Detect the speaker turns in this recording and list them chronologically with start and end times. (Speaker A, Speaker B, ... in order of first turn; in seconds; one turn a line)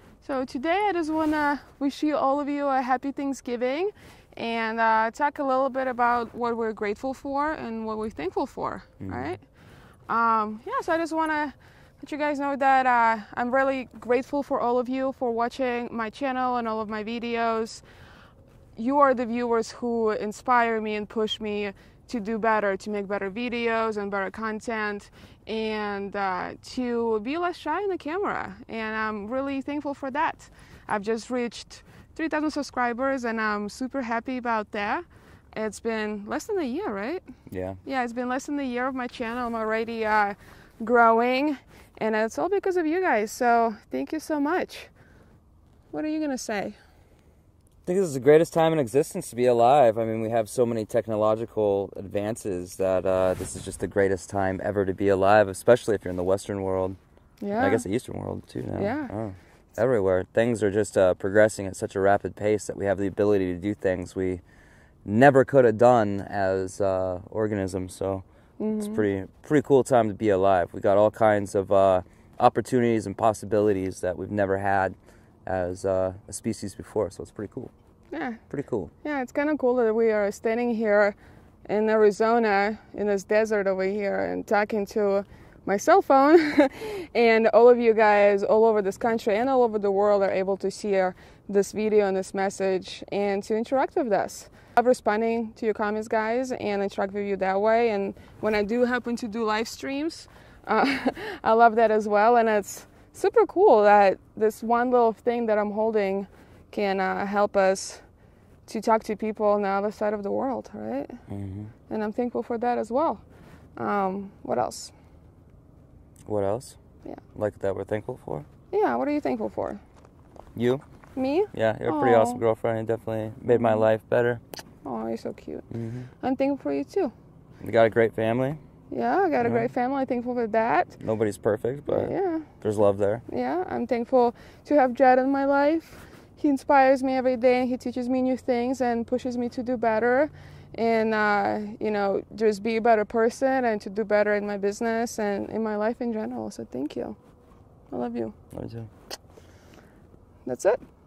Speaker A: 0.2-9.4
Speaker B: 9.0-9.4
Speaker A: 10.1-17.8
Speaker A: 18.8-37.2
Speaker B: 37.5-37.8
Speaker A: 37.8-44.9
Speaker A: 45.9-46.8
Speaker B: 47.8-57.0
Speaker A: 57.4-57.9
Speaker B: 57.5-64.4
Speaker A: 58.8-59.1
Speaker B: 65.0-68.2
Speaker A: 68.6-69.0
Speaker B: 68.8-77.7
Speaker A: 78.1-78.4
Speaker B: 78.5-78.9
Speaker A: 79.0-108.0
Speaker A: 108.7-111.2
Speaker B: 111.3-111.7
Speaker A: 111.9-113.2
Speaker A: 113.8-114.9
Speaker B: 116.2-116.8
Speaker B: 117.3-118.5
Speaker A: 118.7-119.8
Speaker B: 120.5-120.8
Speaker A: 121.1-122.4
Speaker B: 121.5-124.4
Speaker A: 124.8-125.7
Speaker B: 125.7-126.1
Speaker A: 126.2-127.1
Speaker B: 127.6-128.6
Speaker A: 128.9-131.0
Speaker B: 129.4-129.7
Speaker B: 131.0-133.2
Speaker A: 131.9-132.5
Speaker A: 133.3-147.2
Speaker A: 147.9-148.3
Speaker B: 148.5-148.9
Speaker A: 150.4-150.8